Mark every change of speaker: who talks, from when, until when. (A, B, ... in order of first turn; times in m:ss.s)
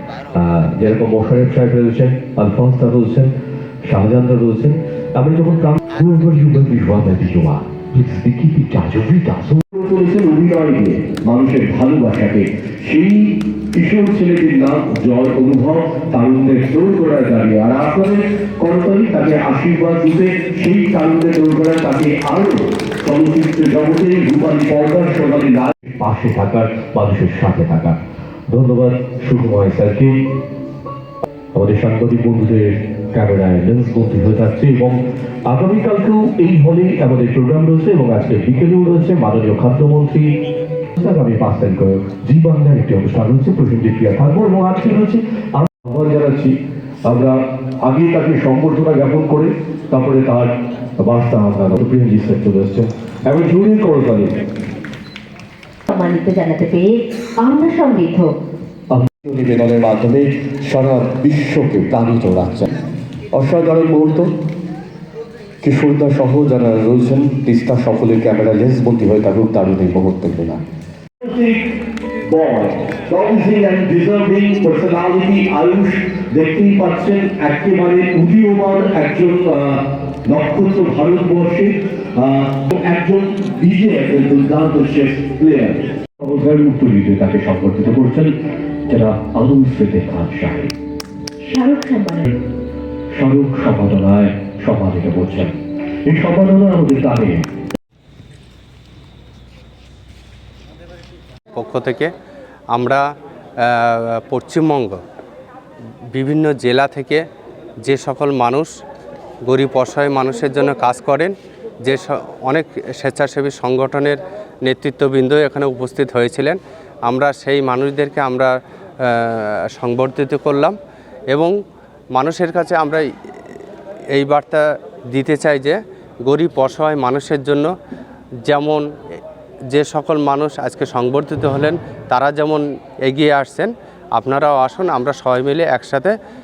0:00.3-0:30.2 A
0:31.5-0:40.3 A
0:41.0-0:54.4 A
0:55.9-0:58.3 B
0:58.9-1:02.7 A
1:03.3-1:04.3 A
1:05.6-1:10.6 A
1:11.2-1:11.7 A
1:12.2-1:28.3 A
1:28.9-1:30.7 A
1:31.4-1:32.3 B
1:33.1-1:37.5 A
1:41.6-1:42.1 C
1:42.7-1:43.0 C
1:43.6-1:45.0 C
1:46.1-1:47.2 C
1:47.9-1:48.7 C
1:49.5-1:58.5 C
1:59.0-2:00.8 C
2:02.2-2:03.0 C
2:04.1-2:07.7 C
2:08.5-2:08.8 C
2:09.7-2:16.1 C